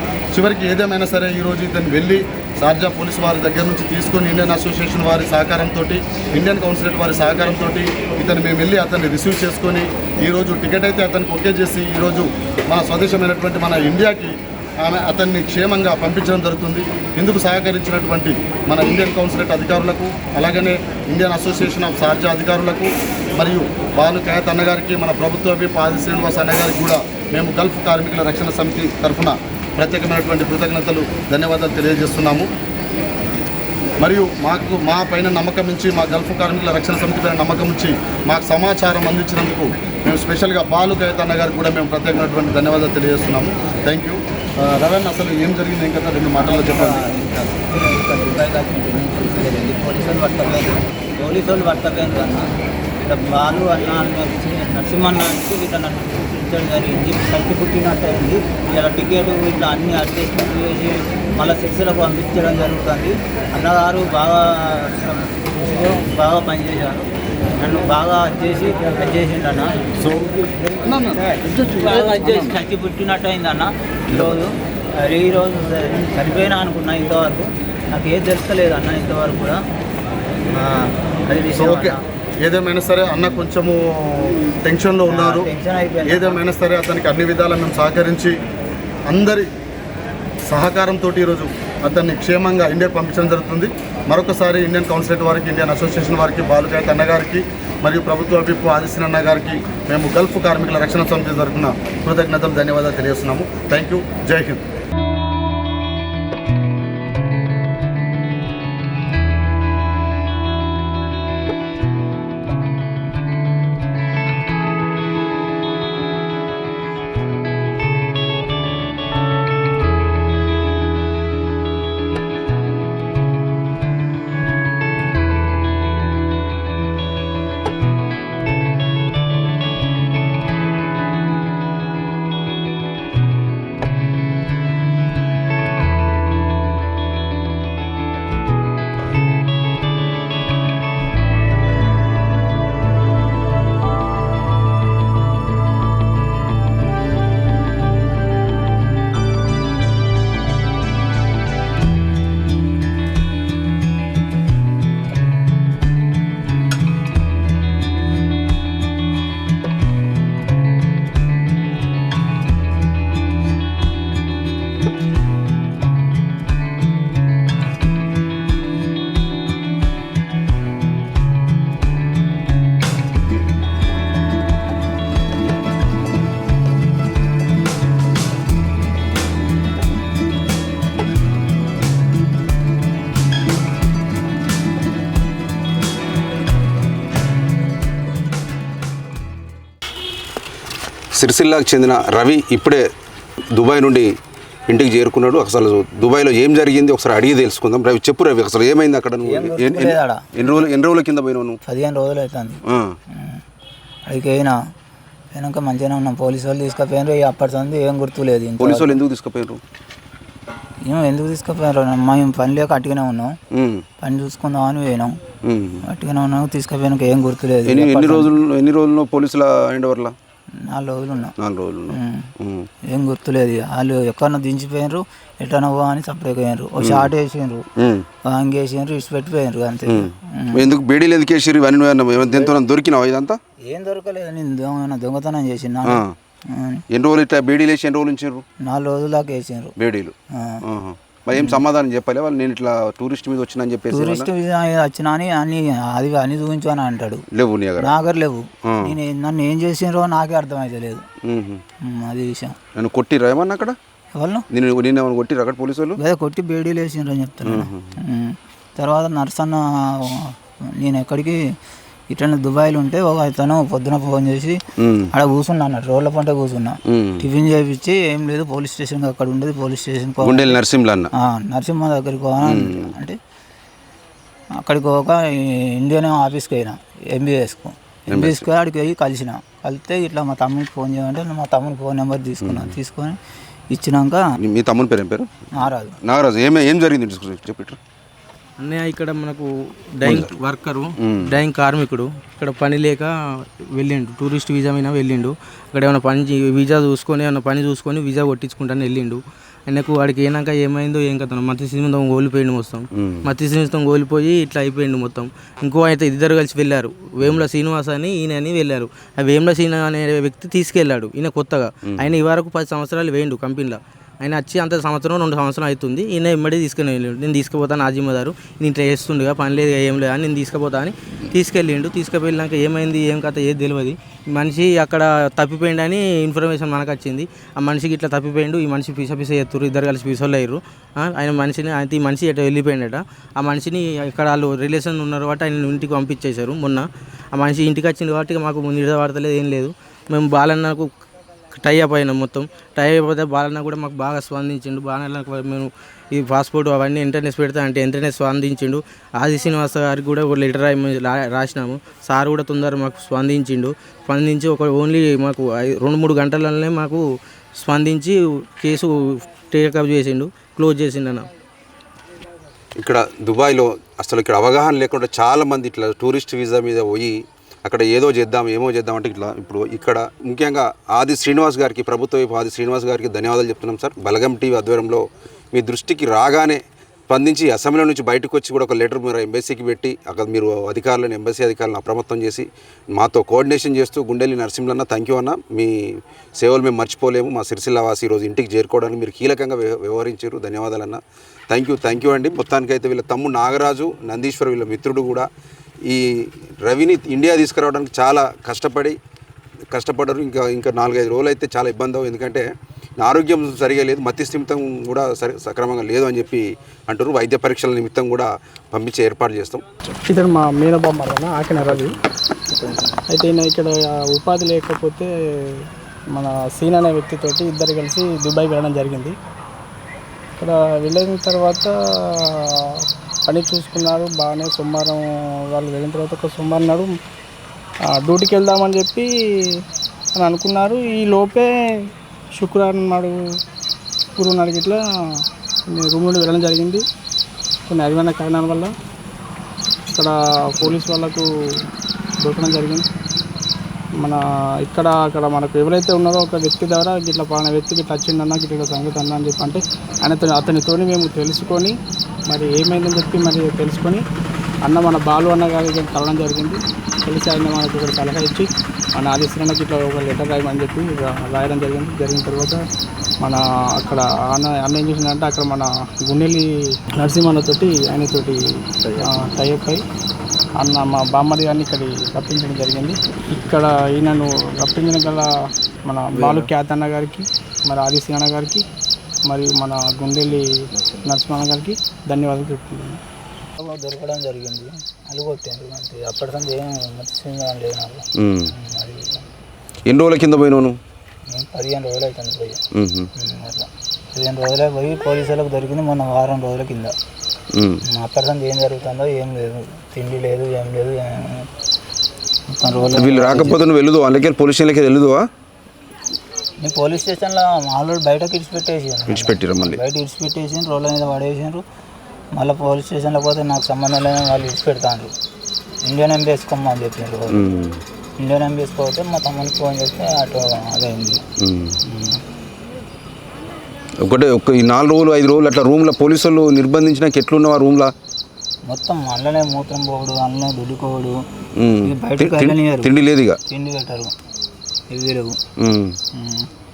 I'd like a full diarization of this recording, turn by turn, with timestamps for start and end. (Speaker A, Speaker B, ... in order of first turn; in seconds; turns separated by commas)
Speaker A: 0.3-32.5, Speaker A: 34.0-47.1, Speaker B: 46.4-52.5, Speaker B: 53.0-66.9, Speaker B: 67.6-69.7, Speaker A: 70.0-72.5, Speaker B: 71.7-74.5, Speaker B: 75.0-79.6, Speaker B: 80.5-82.0, Speaker A: 81.6-85.5, Speaker B: 85.1-86.4, Speaker A: 86.0-88.3, Speaker A: 89.1-89.5, Speaker A: 90.5-104.6, Speaker C: 191.2-192.8, Speaker C: 193.5-194.1, Speaker C: 194.7-201.6, Speaker B: 199.3-200.2, Speaker B: 201.7-202.6, Speaker C: 202.7-202.9, Speaker B: 204.1-204.6, Speaker B: 205.3-209.0, Speaker C: 208.6-209.6, Speaker B: 210.9-213.3, Speaker C: 213.5-213.8, Speaker B: 214.0-215.1, Speaker C: 215.4-215.8, Speaker B: 215.9-218.3, Speaker C: 217.7-220.1, Speaker B: 220.7-221.3, Speaker C: 221.4-222.7, Speaker B: 221.9-222.3, Speaker B: 222.9-227.7, Speaker C: 226.8-227.1, Speaker C: 227.8-228.1, Speaker B: 228.3-230.7, Speaker C: 229.8-233.4, Speaker B: 232.2-232.6, Speaker B: 233.7-236.0, Speaker C: 235.8-236.1, Speaker B: 236.5-236.8, Speaker C: 236.9-238.4, Speaker B: 238.7-239.7, Speaker C: 239.8-244.3, Speaker B: 241.3-241.6, Speaker B: 243.9-247.2, Speaker C: 247.3-248.0, Speaker B: 247.8-251.0, Speaker C: 248.7-249.0, Speaker C: 251.2-251.6, Speaker B: 251.9-252.6, Speaker C: 252.8-253.8, Speaker B: 254.2-254.4, Speaker C: 254.5-256.0, Speaker B: 256.0-261.4, Speaker C: 257.4-257.9, Speaker B: 262.1-264.6, Speaker C: 264.8-265.1, Speaker B: 265.1-270.6, Speaker C: 266.9-267.2, Speaker C: 270.2-271.1, Speaker B: 271.2-273.2, Speaker C: 272.4-272.9, Speaker B: 274.6-283.2, Speaker C: 278.1-278.5, Speaker C: 282.4-282.8, Speaker B: 283.7-284.2, Speaker C: 284.4-285.3, Speaker B: 285.6-285.9, Speaker C: 286.0-287.8, Speaker D: 288.6-293.1, Speaker C: 290.0-290.4, Speaker C: 291.0-291.4, Speaker D: 293.7-340.9, Speaker C: 302.9-303.3, Speaker C: 311.9-312.1, Speaker D: 341.5-357.0, Speaker D: 357.6-361.2, Speaker C: 362.8-367.1, Speaker C: 367.6-395.3, Speaker C: 395.9-399.0, Speaker C: 399.7-402.4, Speaker C: 403.0-409.6, Speaker E: 410.1-411.9, Speaker B: 412.5-412.9, Speaker E: 413.1-415.1, Speaker E: 416.1-419.1, Speaker E: 420.4-421.7, Speaker E: 423.3-426.9, Speaker E: 427.9-429.1, Speaker E: 430.1-431.5, Speaker E: 432.4-433.2, Speaker E: 434.2-434.8, Speaker E: 435.7-436.8, Speaker E: 437.7-438.7, Speaker E: 439.9-441.3, Speaker E: 442.2-442.9, Speaker E: 444.0-451.7, Speaker E: 452.3-454.0, Speaker E: 454.7-462.6, Speaker E: 463.2-466.4, Speaker E: 467.0-468.4, Speaker E: 469.0-469.8, Speaker E: 470.6-475.3, Speaker E: 475.9-478.6, Speaker D: 476.1-476.5, Speaker E: 479.3-480.5, Speaker E: 481.0-483.0, Speaker B: 483.6-489.2, Speaker C: 488.2-488.5, Speaker C: 489.9-490.8, Speaker B: 491.3-492.6, Speaker C: 492.7-493.1, Speaker B: 493.2-496.9, Speaker C: 497.5-497.8, Speaker B: 497.9-501.5, Speaker B: 502.5-503.6, Speaker C: 502.9-505.3, Speaker B: 506.6-511.6, Speaker C: 509.1-509.8, Speaker B: 512.4-515.1, Speaker B: 515.9-517.4, Speaker C: 517.3-517.8, Speaker B: 518.2-521.2, Speaker C: 521.4-521.8, Speaker B: 521.9-522.2, Speaker C: 524.0-527.9, Speaker B: 528.7-531.2, Speaker C: 531.6-533.4, Speaker B: 531.8-532.9, Speaker B: 533.5-534.1, Speaker B: 534.9-535.4, Speaker C: 535.6-536.0, Speaker B: 536.2-536.5